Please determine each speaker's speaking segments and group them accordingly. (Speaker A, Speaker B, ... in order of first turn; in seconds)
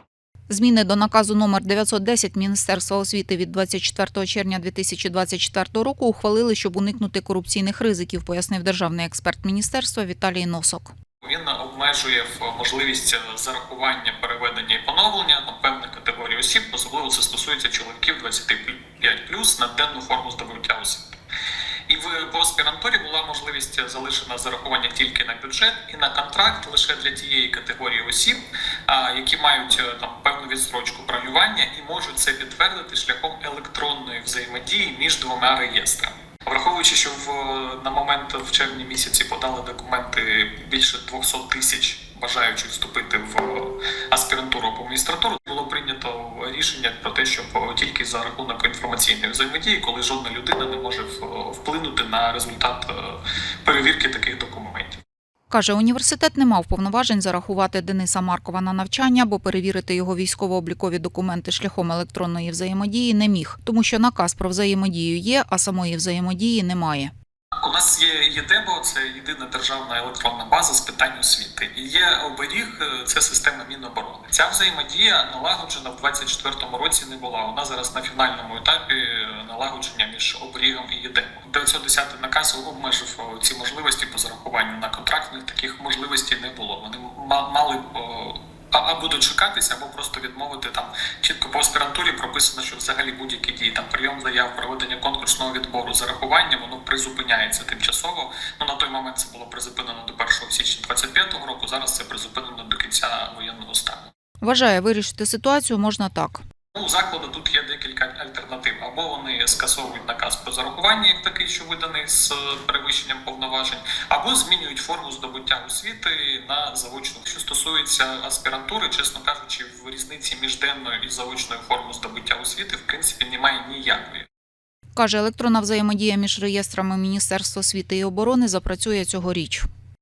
Speaker A: 0.5-10.9, 55.5-67.1, 104.4-106.4, 125.0-129.7
Speaker B: 11.2-21.2, 21.9-55.0, 67.6-104.1, 106.7-124.3